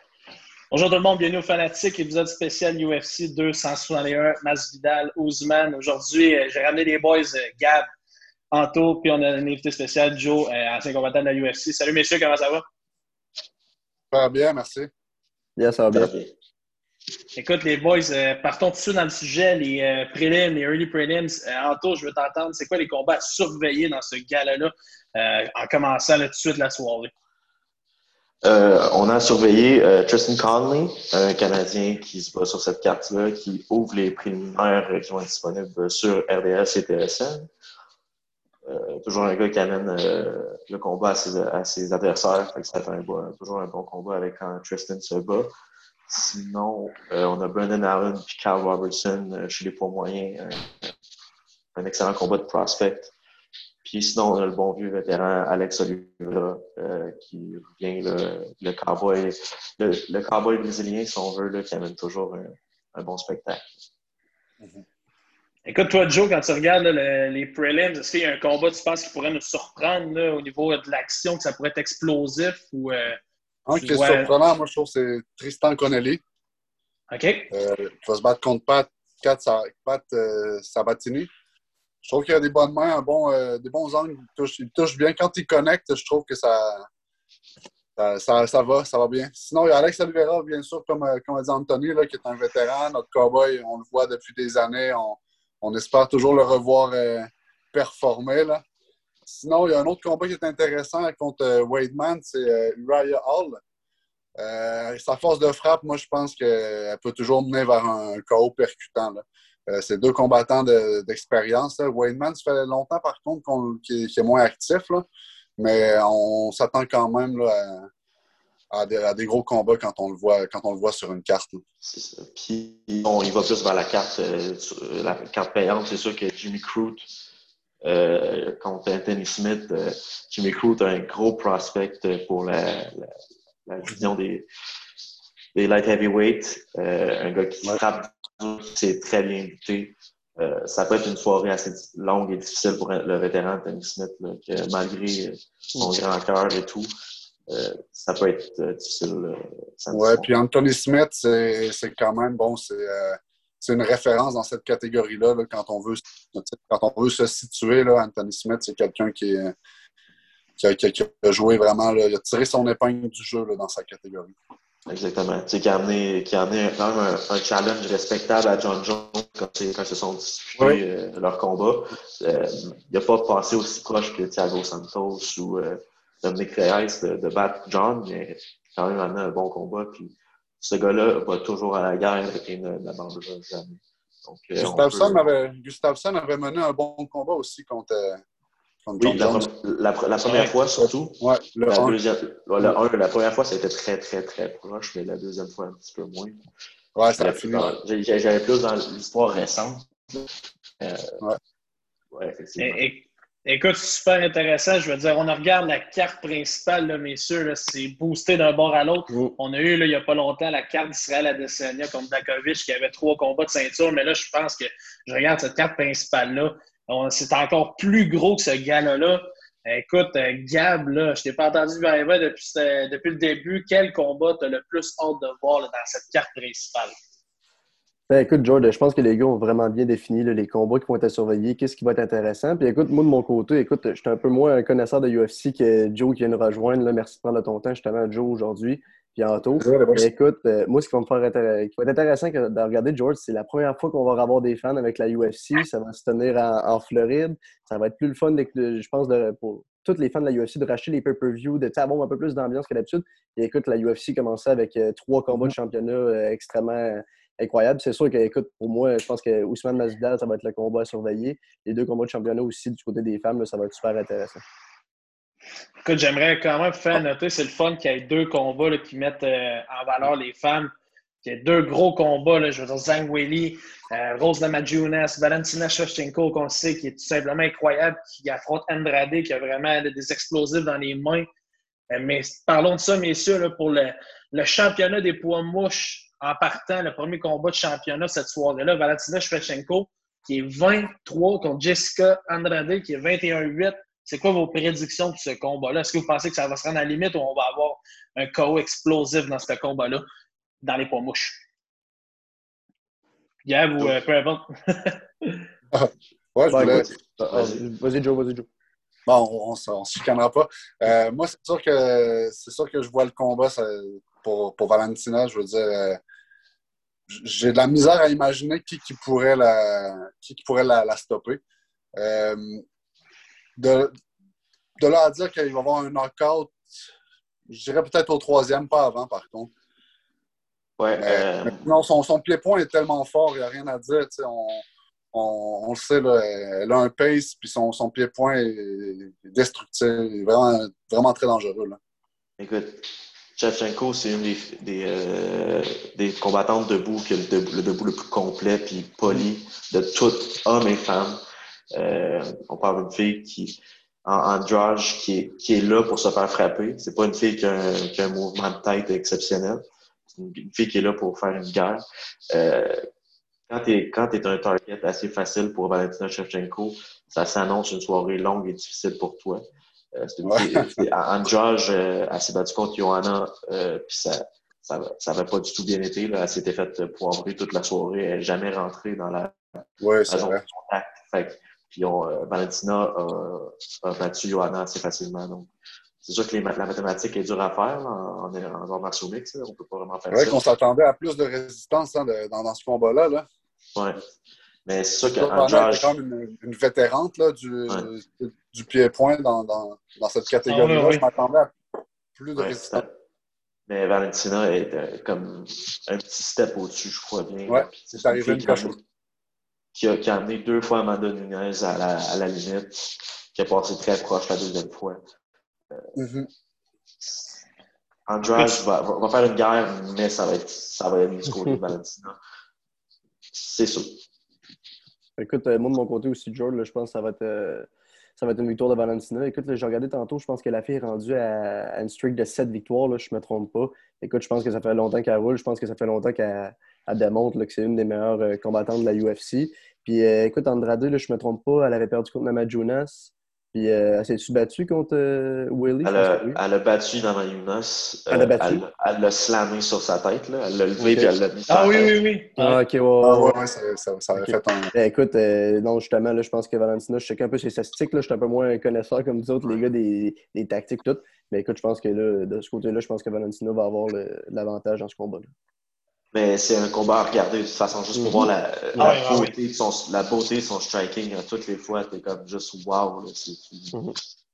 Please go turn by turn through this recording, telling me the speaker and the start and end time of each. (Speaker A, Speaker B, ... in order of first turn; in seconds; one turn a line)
Speaker A: 0.7-7.8
Speaker A: 8.5-12.6
Speaker B: 14.1-14.9
Speaker C: 15.6-16.1
Speaker D: 15.9-16.3
Speaker A: 17.4-27.1
Speaker D: 28.4-37.5
Speaker D: 38.6-45.5
Speaker D: 46.1-50.9
Speaker D: 51.8-53.1
Speaker D: 53.8-63.7
Speaker A: 65.7-73.2
Speaker B: 73.7-76.2
Speaker A: 73.7-74.3
Speaker A: 77.1-77.5
Speaker B: 77.5-81.3
Speaker B: 82.0-86.9
Speaker B: 88.0-98.6
Speaker B: 99.3-103.6
Speaker B: 104.4-115.0
Speaker B: 115.6-117.9
Speaker B: 118.7-121.6
Speaker D: 121.8-127.1
Speaker D: 127.8-133.1
Speaker D: 133.7-134.4
Speaker D: 135.5-146.9
Speaker D: 147.5-150.3
Speaker B: 149.9-159.5
Speaker B: 160.6-164.3
Speaker D: 164.9-185.2
Speaker B: 184.6-188.2
Speaker B: 188.8-189.5
Speaker D: 189.0-196.4
Speaker A: 190.2-190.5
Speaker B: 191.2-192.0
Speaker B: 196.9-197.7
Speaker D: 197.2-200.3
Speaker D: 200.8-201.2
Speaker D: 202.1-202.8
Speaker A: 202.6-226.9
Speaker C: 228.1-264.4
Speaker B: 239.6-240.1
Speaker A: 265.8-270.7
Speaker A: 271.2-281.3
Speaker A: 281.9-300.0
Speaker A: 300.6-301.4
Speaker A: 303.4-305.4
Speaker B: 305.7-306.9
Speaker C: 306.5-308.5
Speaker D: 306.7-307.6
Speaker B: 309.1-316.0
Speaker B: 317.1-321.4
Speaker B: 321.9-322.6
Speaker B: 323.6-323.9
Speaker B: 324.8-326.6
Speaker B: 327.5-329.5
Speaker D: 330.8-331.8
Speaker B: 331.0-341.8
Speaker D: 342.4-351.2
Speaker D: 351.7-362.9
Speaker D: 363.5-385.5
Speaker B: 370.2-370.7
Speaker B: 379.8-380.4
Speaker D: 386.0-390.4
Speaker B: 390.1-393.2
Speaker D: 393.8-394.0
Speaker D: 394.6-395.9
Speaker B: 395.1-401.5
Speaker A: 400.5-401.1
Speaker B: 402.1-402.8
Speaker D: 402.4-402.9
Speaker D: 403.7-408.8
Speaker B: 407.5-408.8
Speaker D: 409.7-415.0
Speaker D: 415.7-416.0
Speaker B: 416.0-416.3
Speaker D: 417.0-417.4
Speaker D: 418.1-422.2
Speaker A: 418.3-418.6
Speaker D: 423.3-424.0
Speaker C: 425.2-446.4
Speaker D: 445.8-451.9
Speaker C: 448.1-448.6
Speaker C: 450.8-451.1
Speaker A: 451.5-452.6
Speaker C: 452.4-453.4
Speaker B: 453.0-454.7
Speaker C: 454.1-465.3
Speaker D: 466.1-473.8
Speaker C: 467.9-469.0
Speaker A: 468.8-469.3